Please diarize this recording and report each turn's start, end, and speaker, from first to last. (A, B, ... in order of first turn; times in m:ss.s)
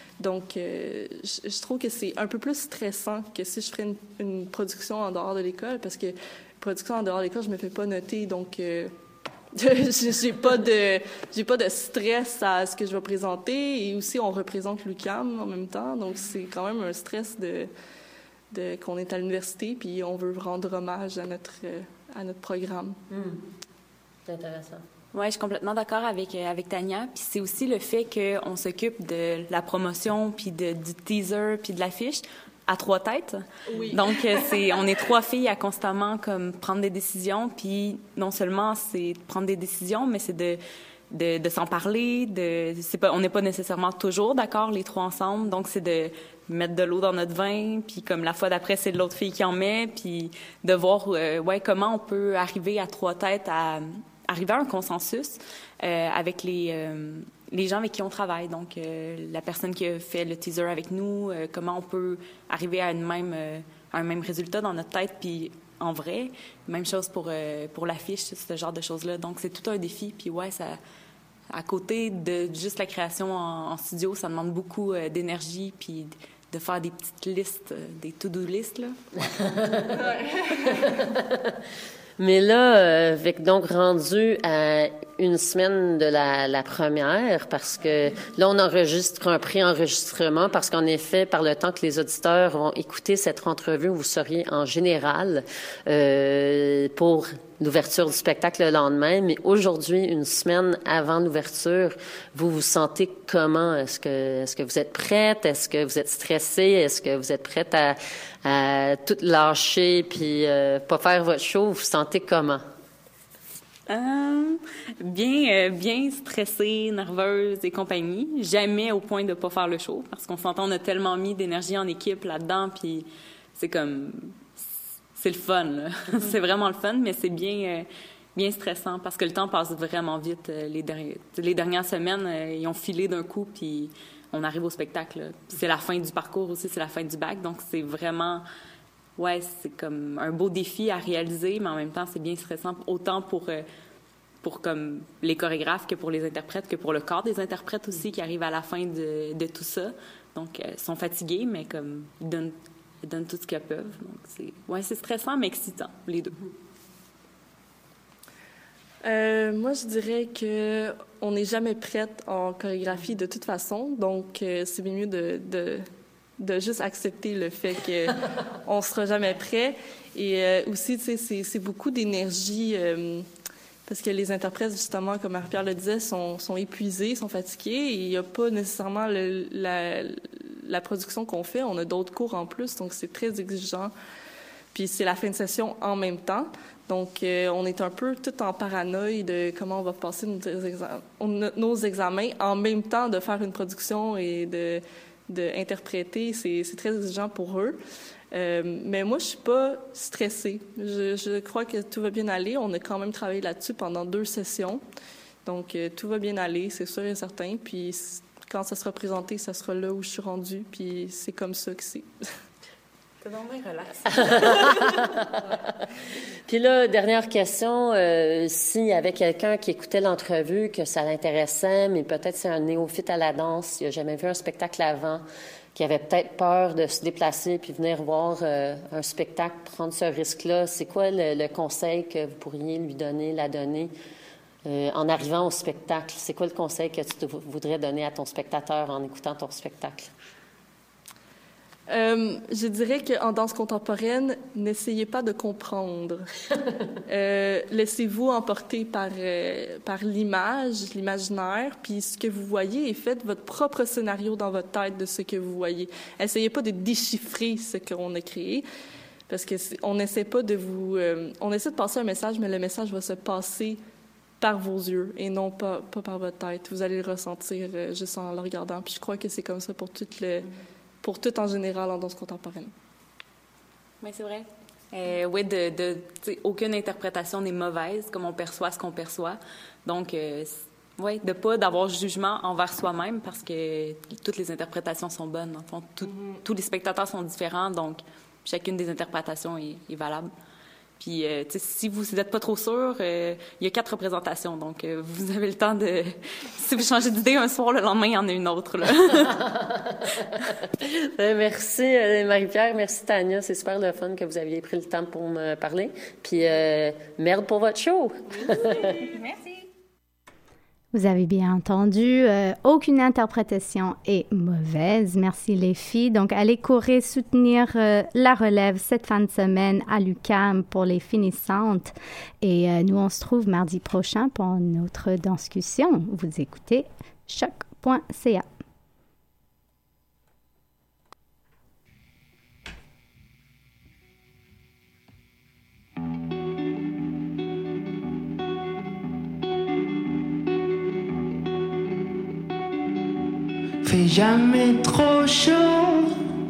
0:00.2-0:08.9 A
0:09.6-0:17.7 A
0:18.5-0:23.0 A
0:23.1-0:23.4 B
0:24.3-0:24.8 B
0:25.1-0:40.6 C
0:33.7-0:34.8 A
0:41.1-1:10.8 C
1:11.5-1:18.9 C
1:19.4-1:19.9 B
1:20.6-1:21.4 B
1:22.2-1:52.6 B
1:53.9-2:04.4 C
2:05.2-2:18.4 C
2:19.2-2:23.7 C
2:24.4-2:36.4 C
2:39.0-2:45.8 A
2:46.4-2:53.3 A
2:53.9-3:03.9 A
3:04.7-3:17.8 A
3:18.3-3:24.8 A
3:25.4-3:32.1 A
3:33.2-3:35.1 C
3:34.1-3:35.4 B
3:36.5-3:45.2 B
3:45.8-3:53.9 B
3:54.6-4:00.1 B
4:01.9-4:06.3 A
4:07.1-4:18.6 A
4:19.3-4:23.8 A
4:24.4-4:30.5 A
4:31.0-4:32.7 A
4:34.0-4:50.3 C
4:51.0-4:59.4 C
4:59.5-4:59.9 B
5:00.8-5:09.1 B
5:08.5-5:09.6 C
5:10.9-5:28.4 D
5:43.8-5:46.2 E